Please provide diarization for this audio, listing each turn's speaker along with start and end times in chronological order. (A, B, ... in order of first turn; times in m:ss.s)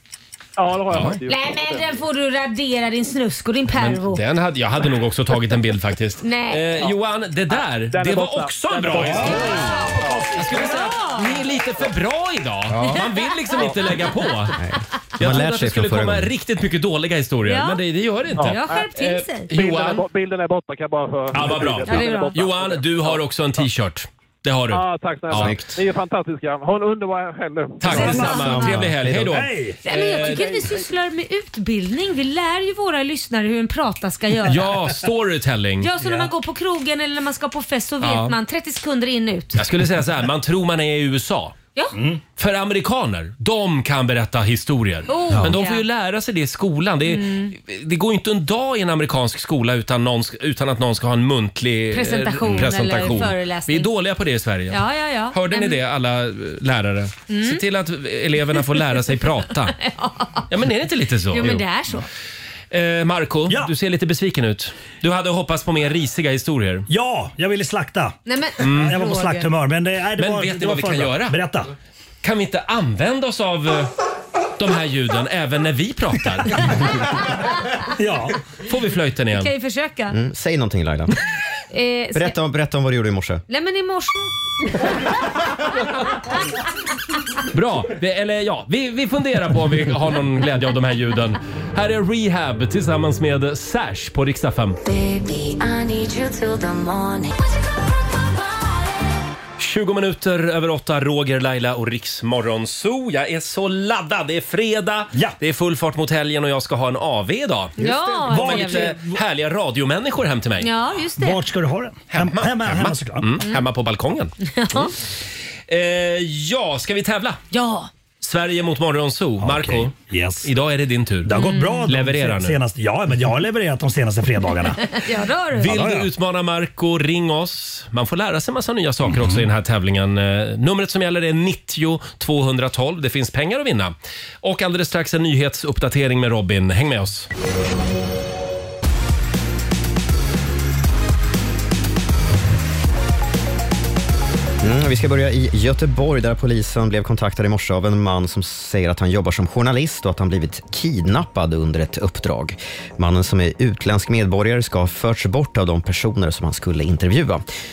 0:00.6-0:01.9 A
0:00.9-0:01.2 B
0:01.3-0:04.2 C
0:03.7-0:09.8 B
0:06.2-0:06.7 C
0:07.5-0:10.4 A
0:08.9-0:10.7 D
0:09.2-0:11.5 C
0:10.3-0:14.6 B
0:12.7-0:13.0 E
0:12.9-0:14.3 C
0:14.6-0:16.3 E
0:15.2-0:20.0 B
0:17.4-0:17.8 C
0:18.4-0:18.9 A
0:18.4-0:19.5 C
0:19.5-0:23.2 A
0:21.3-0:25.8 B
0:21.9-0:22.4 C
0:24.7-0:28.1 A
0:25.3-0:25.6 E
0:27.8-0:30.7 B
0:27.8-0:29.4 E
0:27.9-0:28.8 C
0:29.3-0:29.8 D
0:29.8-0:34.7 C
0:34.5-0:35.9 B
0:35.8-0:39.6 C
0:36.0-0:36.3 D
0:38.0-0:38.3 B
0:39.6-0:41.6 B
0:41.9-0:42.2 D
0:42.4-0:54.8 B
0:45.1-0:45.8 C
0:47.0-0:47.6 C
0:51.9-0:53.9 C
0:54.7-0:55.8 C
0:55.3-0:59.8 B
0:57.3-0:57.6 C
0:58.5-0:58.8 C
0:59.8-1:00.5 C
1:00.5-1:01.6 B
1:01.3-1:02.1 C
1:02.7-1:06.9 B
1:06.9-1:11.7 D
1:08.3-1:09.5 C
1:08.6-1:09.0 B
1:10.2-1:11.4 B
1:12.2-1:13.9 B
1:14.6-1:16.8 B
1:17.9-1:18.4 D
1:18.6-1:19.5 B
1:19.3-1:20.2 C
1:20.1-1:21.1 E
1:21.7-1:22.4 C
1:22.1-1:23.4 E
1:23.5-1:24.9 C
1:27.5-1:34.8 B
1:34.9-1:37.3 F
1:38.0-1:38.9 F
1:39.6-1:47.8 B
1:47.8-1:49.0 C
1:47.8-1:49.2 D
1:48.3-1:50.7 B
1:50.6-1:51.4 C
1:51.2-1:53.3 D
1:52.1-1:54.3 B
1:54.4-1:54.9 C
1:55.7-1:57.4 B
1:57.5-1:57.9 C
1:58.2-2:02.6 B
1:59.4-2:00.5 D
2:01.2-2:05.0 D
2:01.4-2:01.9 C
2:04.8-2:05.7 C
2:05.6-2:06.1 D
2:05.6-2:17.3 B
2:09.0-2:09.4 D
2:24.6-2:37.4 E